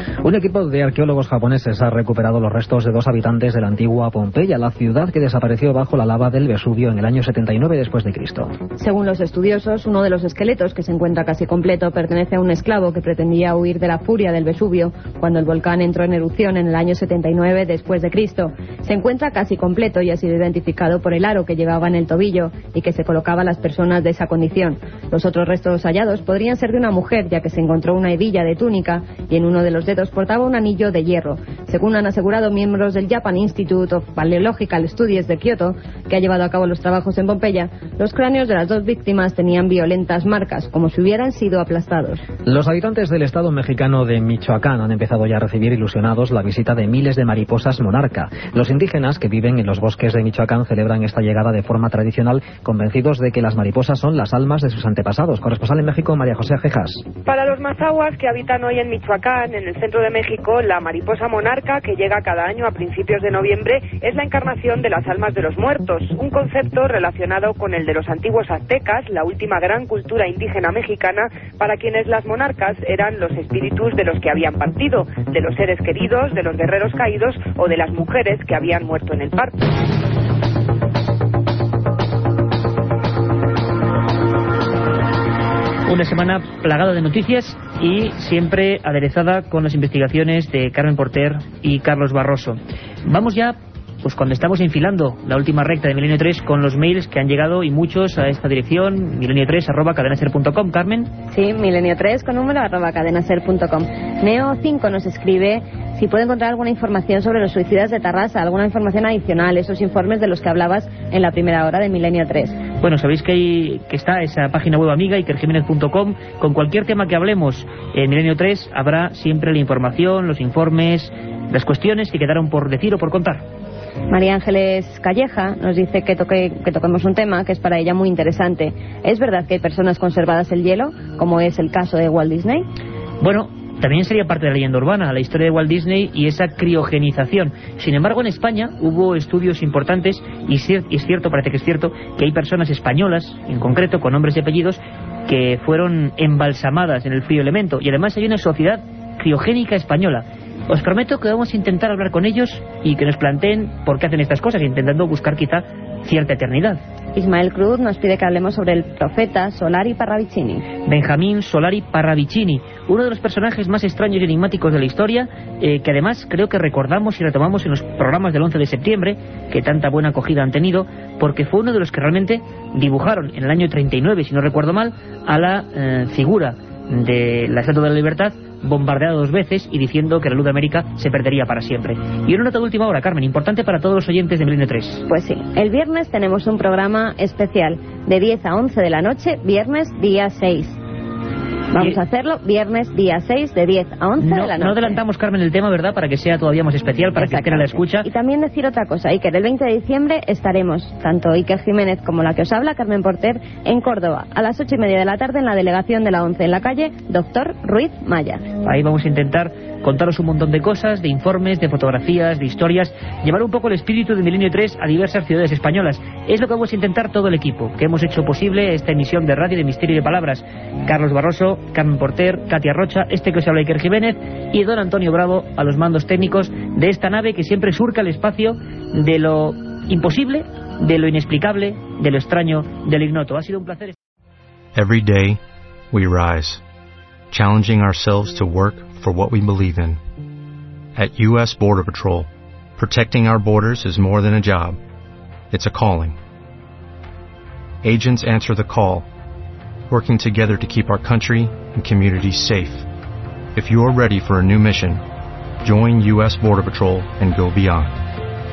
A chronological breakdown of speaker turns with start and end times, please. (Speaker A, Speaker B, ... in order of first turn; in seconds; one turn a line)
Speaker A: 0.2-8.5
Speaker B: 8.8-42.2
Speaker A: 42.5-57.1
Speaker C: 57.2-79.6
Speaker D: 85.8-101.1
Speaker B: 101.3-112.6
Speaker D: 112.8-123.5
Speaker B: 124.1-132.7
Speaker D: 133.2-156.8
Speaker B: 157.1-160.7
Speaker D: 160.8-185.1
Speaker B: 185.1-190.8
Speaker B: 191.7-195.0
Speaker D: 194.2-198.1
Speaker B: 197.2-208.6
Speaker D: 208.6-233.9
Speaker E: 234.7-235.4
Speaker E: 235.9-236.6
Speaker E: 237.3-240.0
Speaker E: 240.9-244.8
Speaker E: 245.5-246.2
Speaker E: 247.8-249.1
Speaker E: 249.9-252.8
Speaker E: 253.5-255.0
Speaker E: 255.6-258.0